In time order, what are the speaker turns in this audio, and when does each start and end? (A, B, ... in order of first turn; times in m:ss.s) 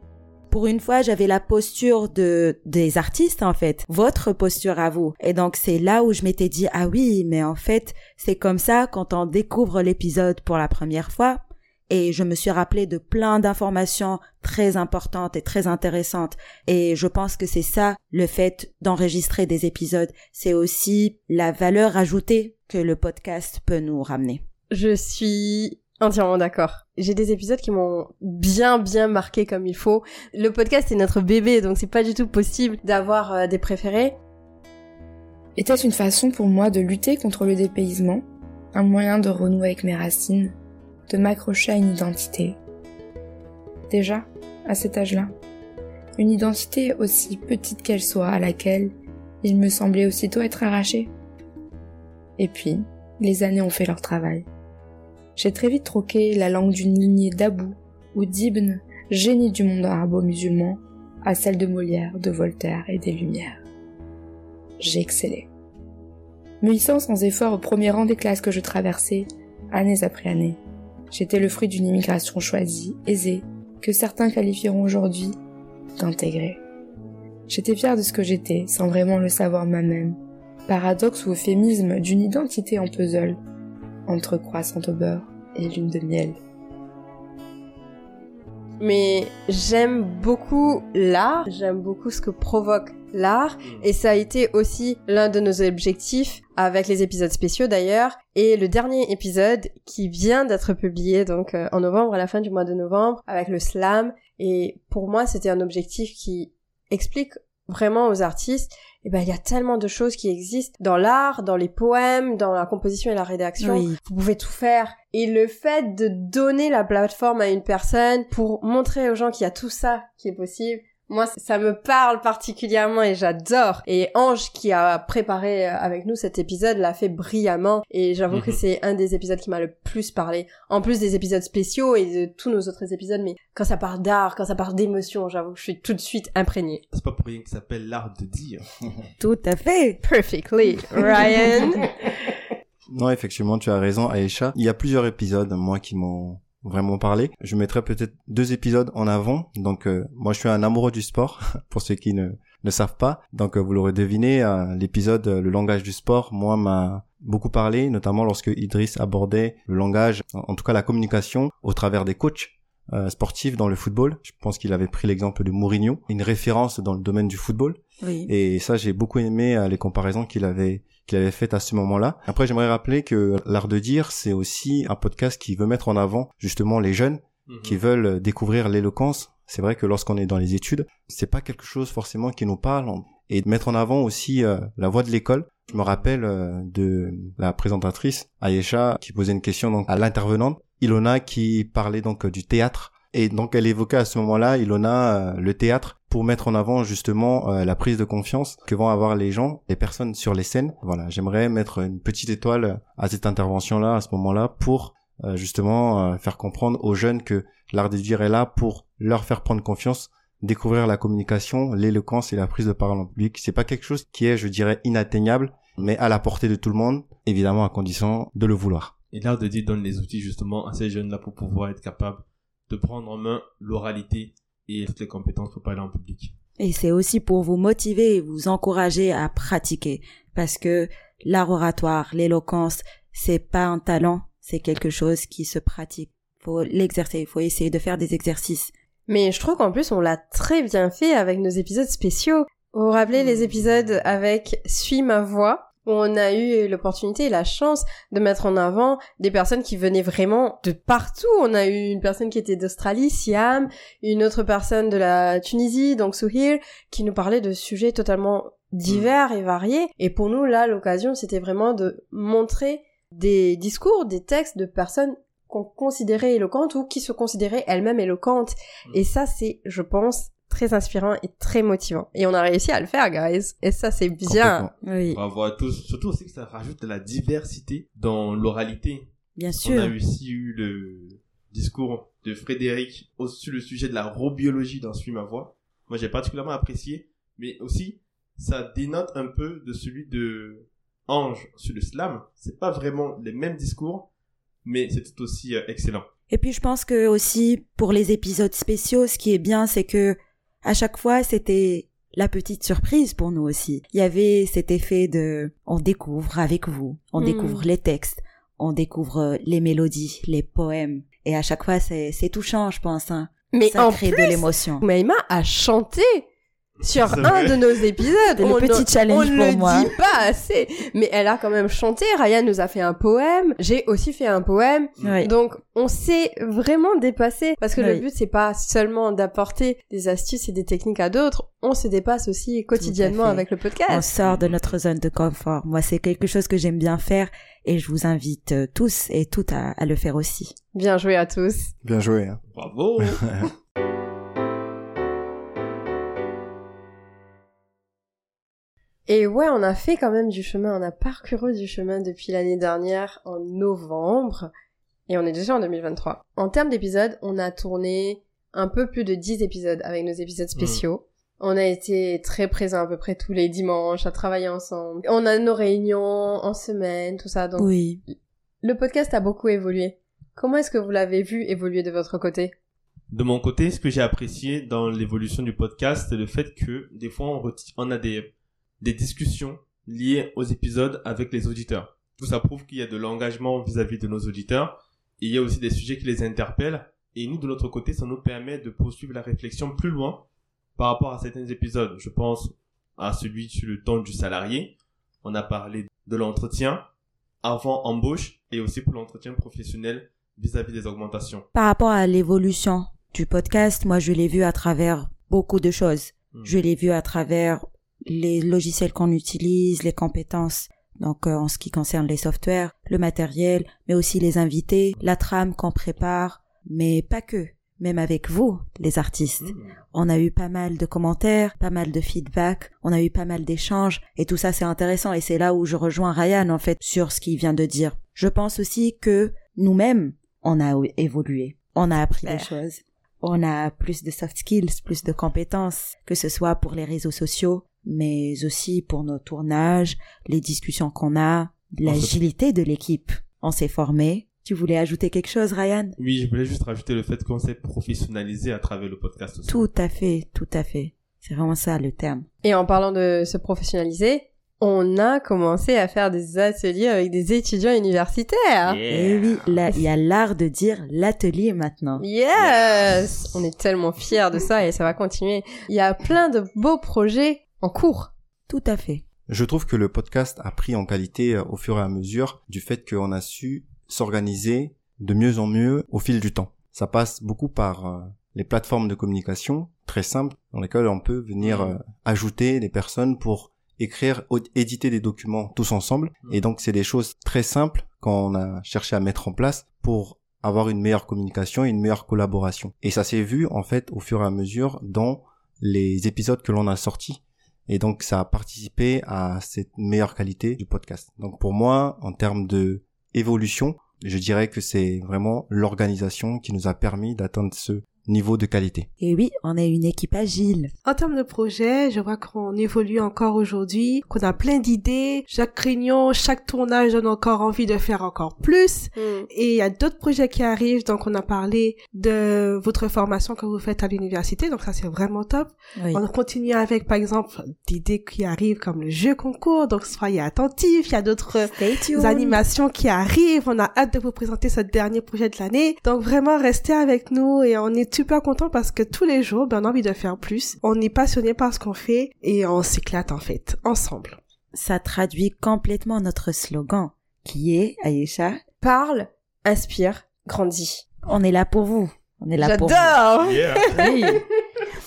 0:00.5-0:24.4 A
0:24.7-0:34.2 B
0:35.6-0:38.2 C
0:38.7-0:40.5 C
0:41.1-0:42.6 C
0:43.9-0:45.3 C
0:46.2-0:51.1 C
0:52.4-0:54.4 C
0:55.4-1:03.6 C
1:04.8-1:05.5 C
1:06.6-1:10.6 C
1:11.1-1:15.4 C
1:16.0-1:16.6 C
1:17.5-1:20.2 C
1:20.7-1:23.4 C
1:24.1-1:26.4 C
1:28.8-2:16.8 B
1:53.6-1:54.0 A
2:08.3-2:08.6 D
2:16.9-2:18.7 D
2:19.2-2:20.0 A
2:20.0-2:21.8 B
2:22.9-3:38.9 E
2:48.0-2:48.3 A
2:57.5-2:57.8 D
3:39.1-3:46.3 D
3:46.6-3:58.7 A
3:59.1-4:34.6 B
4:34.2-4:34.7 E
4:34.8-4:35.2 A
4:35.1-4:54.1 D
4:39.4-4:39.9 A
4:54.6-4:56.0 D
4:56.3-5:14.8 A
5:07.2-5:07.6 B
5:13.5-5:16.2 B
5:16.8-5:34.0 B
5:17.0-5:17.6 D
5:18.4-5:19.9 A
5:25.0-5:25.3 A
5:27.8-5:28.0 A
5:32.8-5:40.5 A
5:34.2-5:34.7 D
5:40.7-5:41.7 B
5:41.8-5:42.4 E
5:42.5-5:43.3 D
5:43.0-5:43.4 E
5:49.1-5:54.5 B
5:55.1-6:07.7 B
6:00.6-6:00.8 D
6:07.6-6:08.0 A
6:08.6-6:12.5 B
6:13.1-6:18.3 D
6:18.8-6:30.2 D
6:30.8-6:36.8 D
6:37.4-6:41.5 D
6:41.5-7:26.0 A
6:59.4-6:59.7 D
7:12.2-7:12.5 B
7:21.8-7:22.2 D
7:26.0-7:29.6 D
7:29.5-7:32.3 A
7:32.4-7:38.8 B
7:38.6-7:39.6 D
7:38.9-7:42.0 A
7:42.0-7:48.1 B
7:42.4-7:43.4 D
7:48.5-7:49.0 A
7:49.3-8:28.9 E
8:01.4-8:01.7 D
8:29.0-8:30.7 A
8:30.8-9:04.2 F
8:38.9-8:39.3 B
8:45.8-8:46.0 A
8:51.5-8:52.4 A
9:04.5-9:08.4 A
9:08.6-9:10.8 B
9:11.0-9:13.0 A
9:12.4-9:13.6 B
9:13.2-9:13.8 D
9:13.7-9:14.2 A